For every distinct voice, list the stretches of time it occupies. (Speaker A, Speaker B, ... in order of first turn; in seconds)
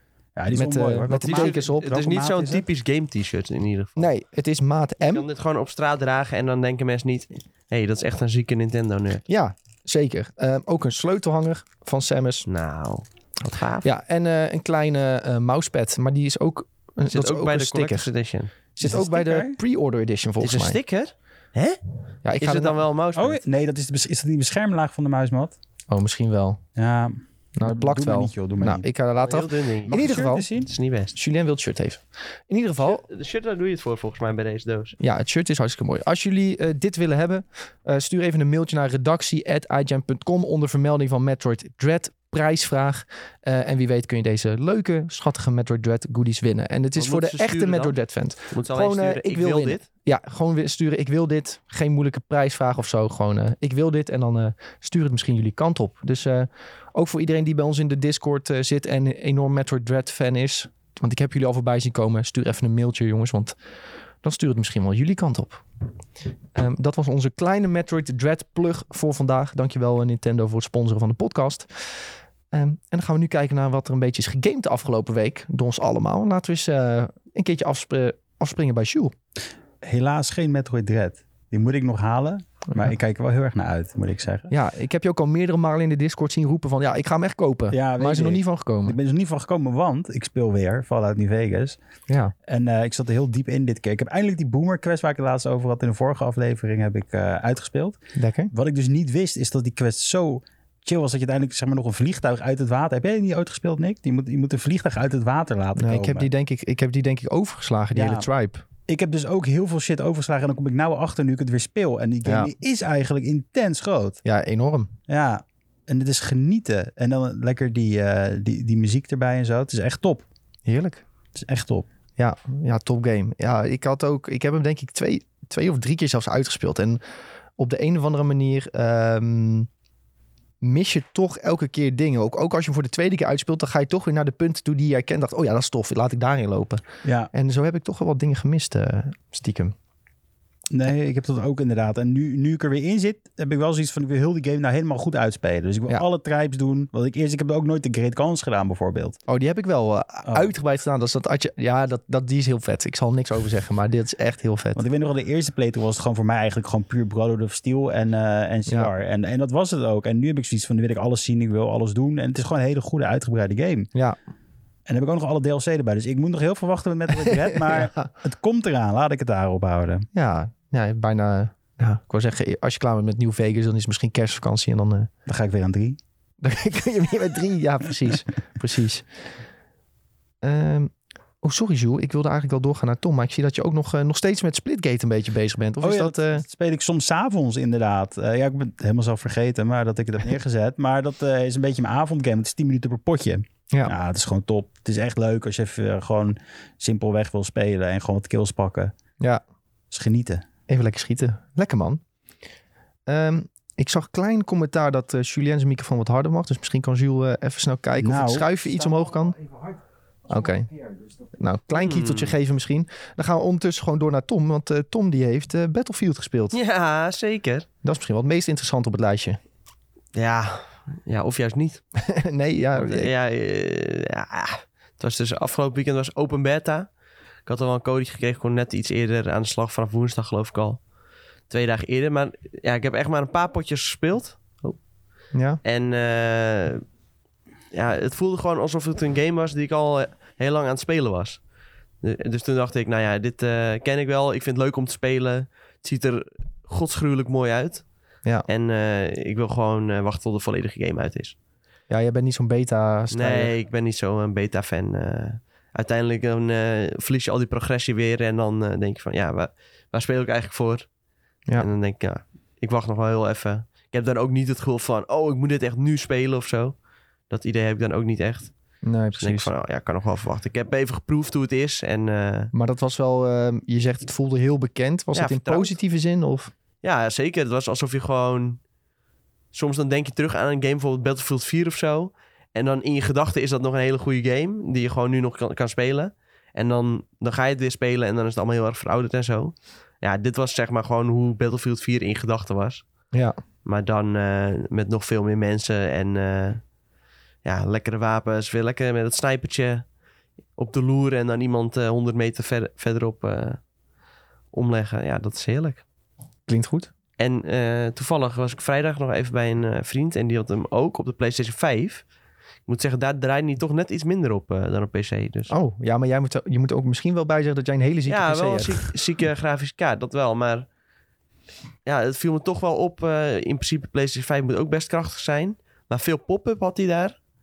Speaker A: 0.4-2.6, 18.8-19.6, 23.1-25.6, 26.8-28.9, 29.9-30.7, 79.8-84.5, 87.7-91.8, 92.5-98.0, 98.5-106.3, 108.0-108.3, 108.9-114.2, 115.1-120.2, 121.3-121.9, 137.0-137.3, 140.7-149.2, 154.8-163.9, 164.9-170.1, 175.3-176.0, 185.8-198.9, 199.9-200.4, 208.0-208.5
Speaker B: 0.5-2.4, 4.0-5.2, 9.3-12.5, 13.8-18.1, 18.8-20.8, 22.2-22.8, 25.9-26.6, 27.6-30.5, 31.1-33.0, 35.0-63.5, 64.2-65.6, 66.5-71.7, 72.5-79.1, 84.5-89.0, 92.1-92.3, 98.2-98.5, 105.8-108.6, 112.3-112.5, 114.2-114.9, 120.7-121.0, 122.2-127.0, 127.6-129.7, 130.6-139.7, 149.3-154.8, 167.2-168.1, 170.1-175.1, 176.4-179.1, 180.4-186.4, 200.7-202.0, 203.1-209.4, 210.3-210.7, 211.3-216.6, 217.8-219.4, 222.1-223.1, 235.3-235.6, 251.9-253.5, 268.8-269.5, 272.5-276.5, 306.5-306.9, 315.5-318.9
Speaker C: 1.1-4.1, 5.1-9.2, 12.5-13.9, 17.1-18.5, 20.4-21.8, 22.4-23.4, 29.2-30.0, 30.7-31.2, 32.8-35.0, 47.0-48.0, 48.5-49.8, 211.8-212.3, 216.5-217.7, 220.2-221.8, 222.8-226.9, 227.5-230.8, 231.5-234.8, 235.6-236.8, 237.7-241.4, 242.0-247.9, 248.5-251.3, 253.1-260.9, 261.6-266.8, 267.3-268.5, 269.1-272.5, 275.1-275.8, 276.8-278.6, 279.5-292.8, 293.6-296.6, 297.4-299.9, 300.6-303.6, 304.5-305.8, 307.2-312.0, 312.7-315.5, 318.1-320.7, 321.9-327.2